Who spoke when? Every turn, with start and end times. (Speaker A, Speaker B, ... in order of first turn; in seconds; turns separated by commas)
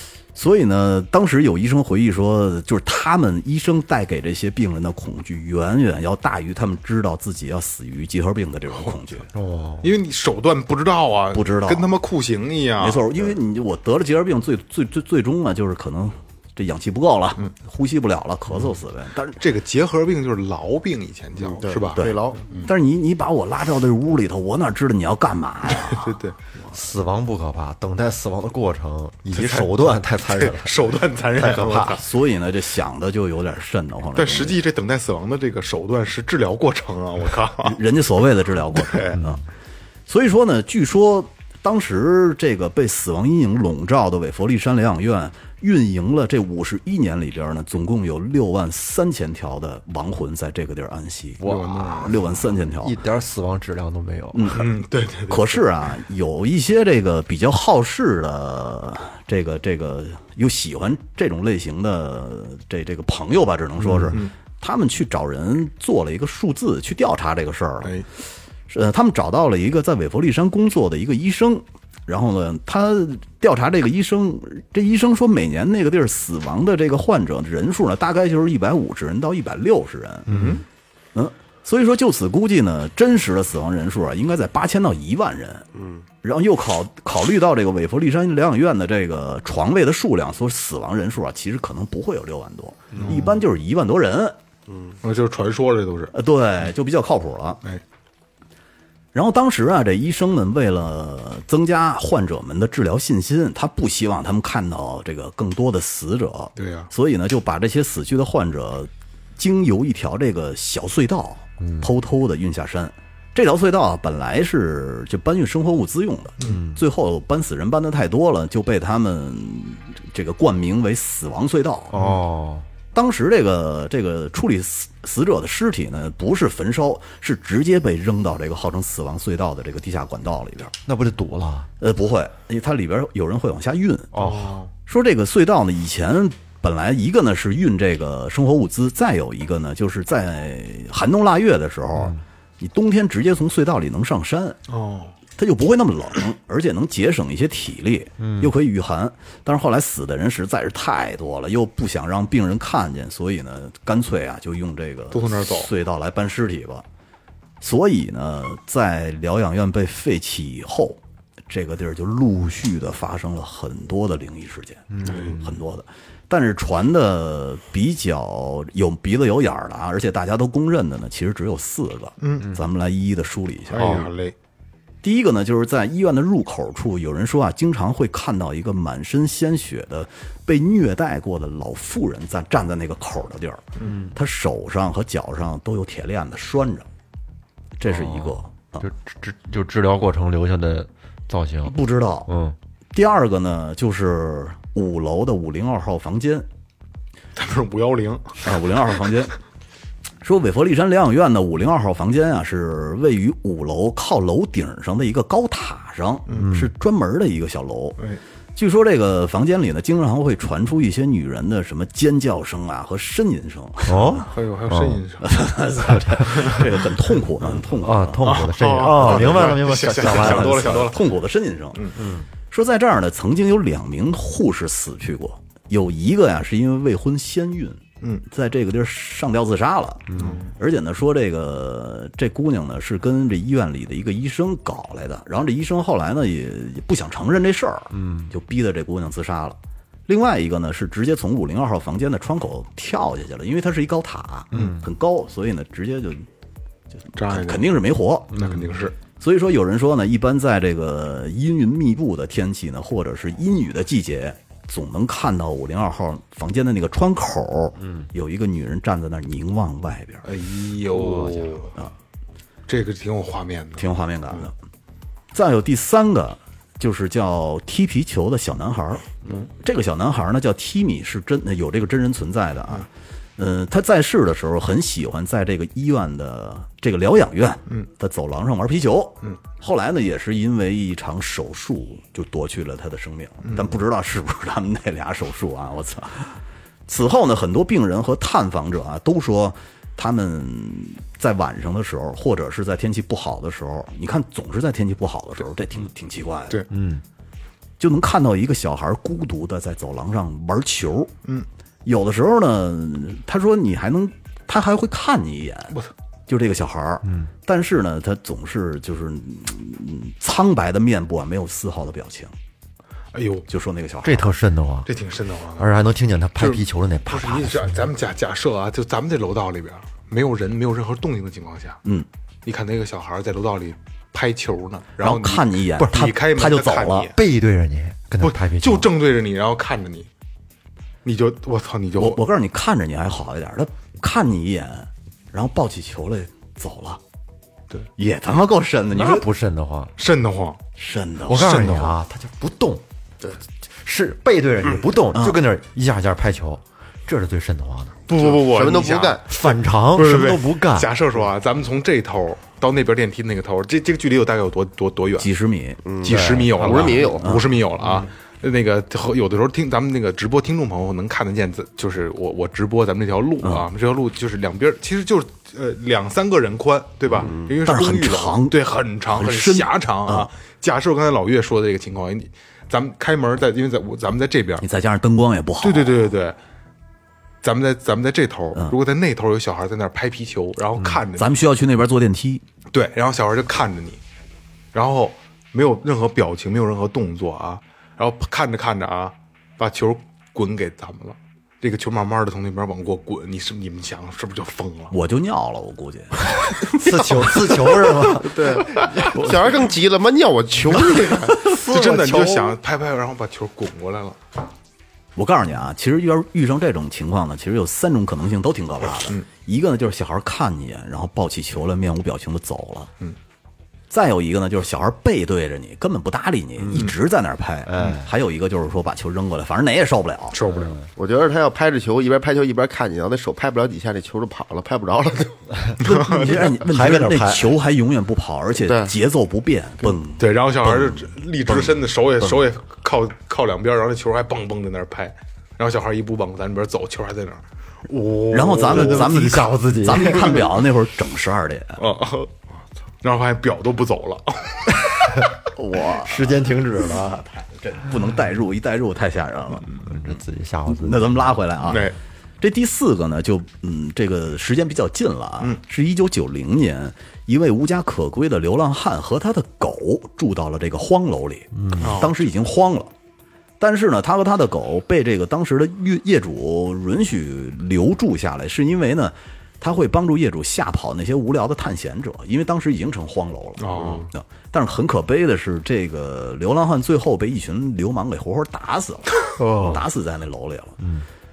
Speaker A: 0.3-9.3, Speaker B: 9.3-9.9, Speaker C: 9.8-13.3, Speaker A: 11.3-11.9, Speaker A: 12.8-19.4, Speaker C: 19.4-22.7, Speaker D: 21.4-22.4, Speaker A: 21.9-26.1, Speaker C: 25.8-26.4, Speaker B: 26.7-32.0, Speaker C: 29.4-32.0, Speaker A: 31.8-34.6, Speaker C: 34.1-37.8, Speaker A: 37.6-39.4, Speaker C: 38.7-39.2, Speaker A: 40.1-53.0, Speaker B: 51.4-52.2, Speaker C: 51.4-52.2, Speaker B: 52.8-54.6, Speaker A: 54.3-54.7, Speaker C: 54.5-55.6, Speaker A: 55.3-67.9, Speaker B: 63.9-64.2, Speaker C: 64.0-64.3, Speaker A: 68.7-80.3, Speaker B: 80.3-80.6, Speaker C: 80.3-80.6, Speaker A: 81.1-85.7, Speaker A: 86.2-94.4, Speaker C: 92.9-93.3, Speaker C: 95.0-96.1, Speaker A: 96.1-97.6, Speaker A: 99.1-122.0, Speaker C: 106.6-106.9, Speaker B: 111.6-111.9, Speaker B: 116.4-116.8, Speaker B: 121.9-122.7, Speaker A: 122.9-130.7, Speaker B: 130.9-131.7, Speaker A: 131.8-134.2, Speaker B: 134.1-134.6, Speaker C: 134.2-134.7, Speaker A: 134.9-144.6, Speaker B: 141.9-142.2, Speaker C: 144.7-145.1, Speaker A: 145.4-156.8, Speaker B: 148.2-148.5, Speaker C: 155.1-155.7, Speaker A: 157.6-174.1, Speaker B: 164.9-165.6, Speaker C: 165.0-165.4, Speaker C: 172.2-172.5, Speaker C: 173.7-174.3, Speaker A: 175.0-186.9, Speaker B: 183.8-184.1, Speaker A: 187.8-188.8, Speaker B: 187.8-192.6, Speaker A: 191.6-192.3, Speaker A: 192.9-196.5, Speaker C: 197.4-198.4, Speaker A: 198.4-199.3, Speaker A: 200.2-208.0, Speaker C: 206.3-206.5, Speaker B: 206.3-206.7, Speaker A: 208.6-214.2, Speaker B: 213.9-215.0, Speaker C: 214.2-215.6, Speaker A: 215.2-218.3, Speaker B: 216.1-216.5, Speaker C: 216.3-216.6, Speaker B: 217.8-220.9, Speaker C: 218.2-221.0, Speaker A: 219.0-221.9, Speaker B: 221.9-222.2, Speaker A: 222.5-246.2, Speaker B: 230.1-230.4, Speaker C: 230.2-230.5, Speaker B: 237.9-238.3, Speaker B: 244.5-244.9, Speaker A: 247.1-248.5, Speaker C: 247.2-247.7, Speaker C: 248.3-248.9, Speaker A: 249.2-260.3, Speaker B: 257.8-258.1, Speaker C: 260.2-261.7, Speaker B: 260.9-261.5, Speaker C: 262.7-264.5, Speaker A: 263.8-264.5, Speaker A: 265.3-296.6, Speaker C: 283.4-283.7, Speaker B: 296.7-297.0, Speaker A: 297.8-301.1, Speaker A: 301.9-312.3, Speaker B: 307.0-307.3, Speaker C: 313.1-313.4, Speaker A: 313.5-314.3, Speaker B: 314.0-314.9, Speaker C: 314.9-315.7, Speaker B: 315.6-317.9, Speaker C: 316.4-321.8, Speaker C: 322.4-327.2, Speaker A: 325.0-327.1, Speaker B: 325.8-326.1, Speaker B: 327.1-328.9, Speaker C: 328.2-330.1, Speaker C: 331.1-332.2, Speaker A: 332.0-337.0, Speaker A: 338.0-339.3, Speaker B: 338.9-339.9, Speaker C: 340.0-340.6, Speaker A: 340.8-341.7, Speaker B: 341.3-342.8, Speaker C: 341.3-341.9, Speaker B: 343.7-348.0, Speaker A: 345.1-345.4, Speaker C: 348.1-355.3, Speaker D: 348.1-349.2, Speaker B: 349.2-350.9, Speaker A: 355.2-355.8, Speaker D: 355.9-357.3, Speaker C: 356.0-374.6, Speaker B: 356.1-357.1, Speaker A: 356.6-357.6, Speaker A: 363.4-363.7, Speaker A: 367.6-370.3, Speaker A: 374.6-376.1, Speaker C: 375.6-376.4, Speaker C: 377.4-381.3, Speaker A: 381.1-382.4, Speaker C: 382.7-384.0, Speaker C: 384.7-394.9, Speaker A: 394.9-397.7, Speaker B: 396.7-398.5, Speaker D: 398.2-401.4, Speaker C: 400.7-404.2, Speaker A: 401.3-402.3, Speaker A: 405.1-412.9, Speaker A: 413.9-420.4, Speaker B: 416.6-416.9, Speaker B: 417.6-418.1, Speaker C: 420.3-420.8, Speaker B: 420.5-420.9, Speaker D: 420.9-425.4, Speaker C: 425.8-426.5, Speaker A: 425.8-431.8, Speaker B: 426.4-427.5, Speaker D: 428.6-428.9, Speaker C: 430.2-439.1, Speaker B: 438.0-440.4, Speaker A: 438.3-441.8, Speaker C: 440.0-440.4, Speaker C: 441.8-442.3, Speaker C: 443.0-445.3, Speaker A: 445.5-450.1, Speaker B: 446.0-447.2, Speaker B: 449.8-451.4, Speaker A: 450.7-462.9, Speaker C: 451.7-451.9, Speaker B: 461.5-462.0, Speaker C: 461.8-462.1, Speaker A: 463.6-480.8, Speaker C: 473.6-474.1, Speaker B: 479.4-479.8, Speaker B: 480.8-481.1